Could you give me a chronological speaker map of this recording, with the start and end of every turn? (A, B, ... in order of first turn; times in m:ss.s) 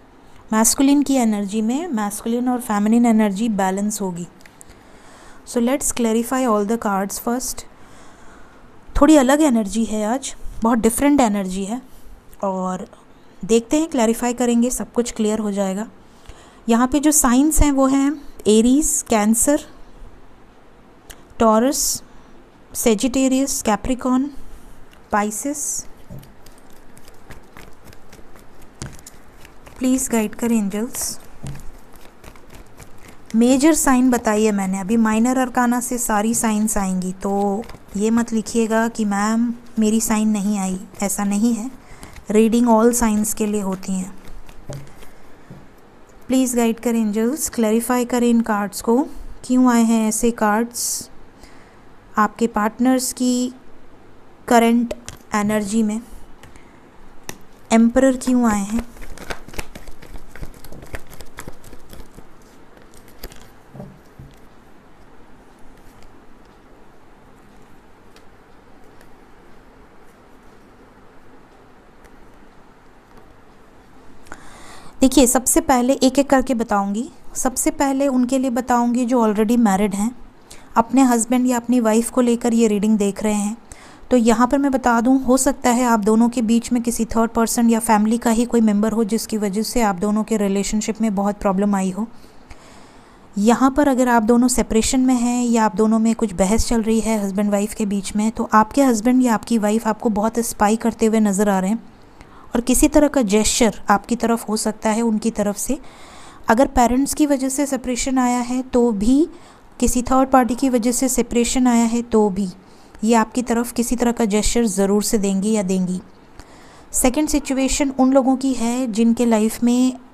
0:00.5-0:04.3 A
0:05.5-0:07.7 A
0:08.9-0:11.8 A
0:12.4-0:12.9 A
0:13.4-0:15.9 A
0:16.7-0:19.6 A
0:21.4-0:22.0 A
0:22.7-0:24.3 A
0:25.1-0:25.9 A
0:29.8-0:31.2 A
0:33.3-0:41.7 A
0:42.3-0:44.1 A
0:46.3-0:51.1 A
0:52.2-0:53.6 A
0:54.4-0:56.0 A
0:57.7-0:58.8 A
1:15.0-1:20.1 A
1:20.8-1:32.1 A
1:33.4-1:41.8 A
1:42.5-1:45.8 A
1:46.5-1:56.0 A
1:56.9-2:00.0 A